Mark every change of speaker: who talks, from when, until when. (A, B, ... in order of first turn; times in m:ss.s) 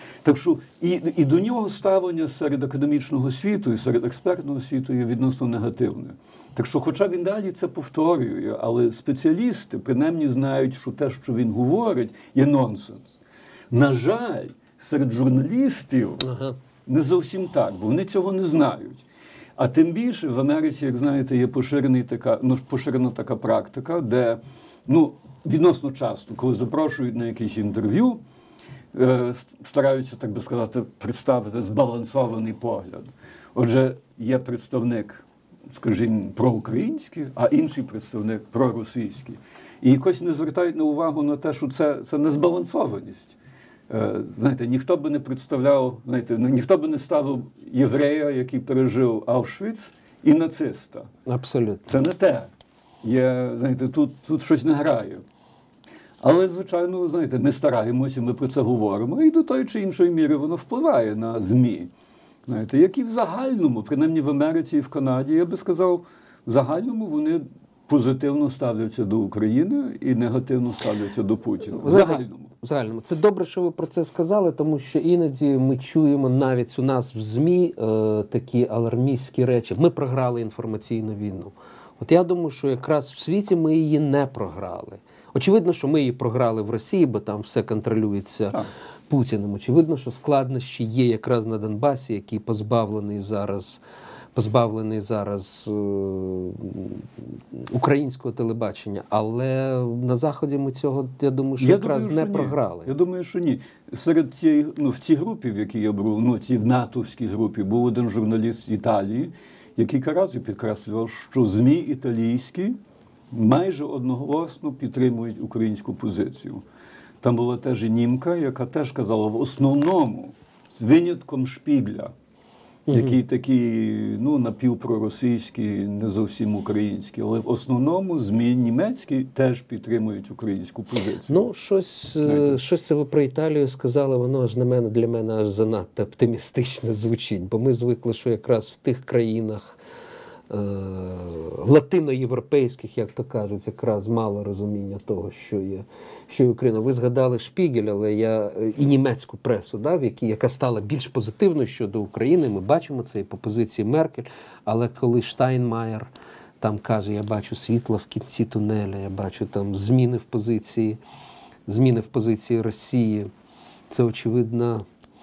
0:00.2-0:13.2 A
0:13.7-0:16.3 A
0:16.2-0:16.6 B
0:16.8-0:19.0 A
0:19.6-0:28.2 A
0:28.9-0:43.4 A
0:43.9-0:51.1 A
0:51.2-0:51.9 B
0:51.9-0:52.5 A
0:53.0-0:55.2 A
0:56.2-1:01.9 A
1:02.5-1:12.5 A
1:11.7-1:33.8 B
1:34.3-1:42.9 B
1:41.6-1:52.8 A
1:53.3-1:56.6 A
1:57.2-2:02.1 A
2:02.9-2:03.2 B
2:02.9-2:11.5 A
2:11.3-2:19.8 B
2:12.2-2:12.6 A
2:20.5-2:41.0 B
2:41.6-2:43.3 B
2:43.9-2:44.8 B